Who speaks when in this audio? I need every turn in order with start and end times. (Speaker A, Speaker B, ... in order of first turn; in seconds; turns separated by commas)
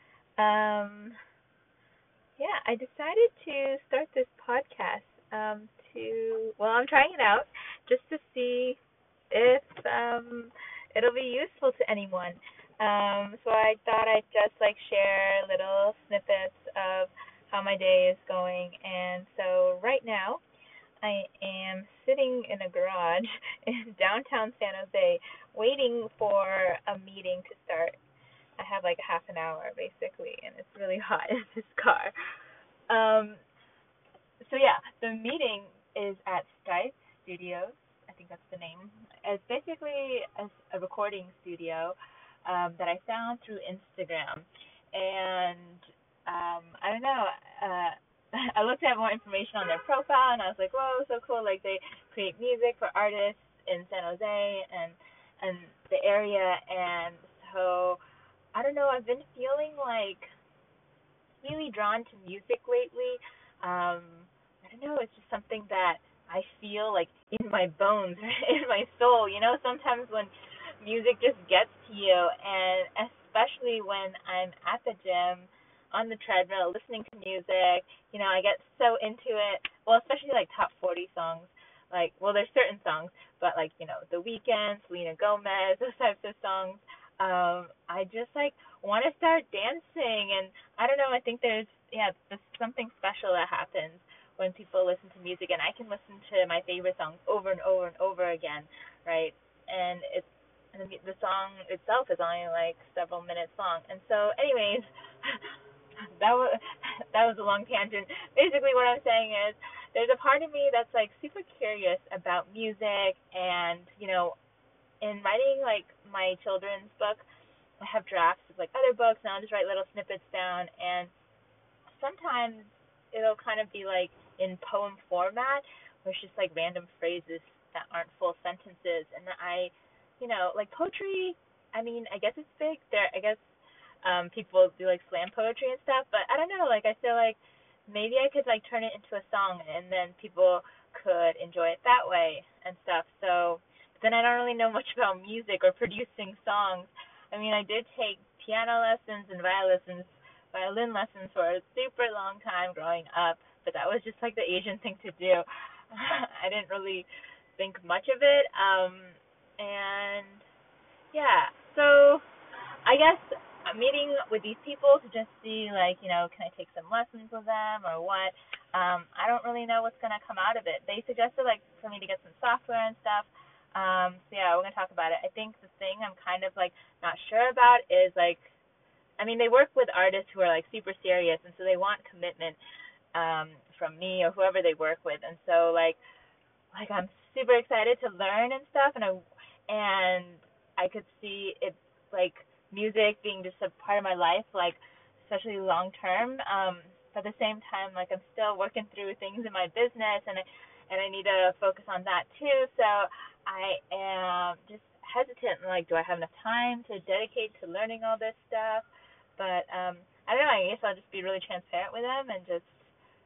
Speaker A: 0.4-1.1, Speaker A: 2.4-20.4, Speaker A: 21.0-28.0, Speaker A: 28.6-32.1, Speaker A: 32.9-33.4, Speaker A: 34.4-58.0, Speaker A: 58.5-60.3, Speaker A: 61.4-105.5, Speaker A: 106.2-114.4, Speaker A: 115.0-117.3, Speaker A: 117.8-121.1, Speaker A: 121.9-160.4, Speaker A: 161.1-162.2, Speaker A: 162.8-178.6, Speaker A: 179.2-182.6, Speaker A: 183.1-186.0, Speaker A: 186.7-212.9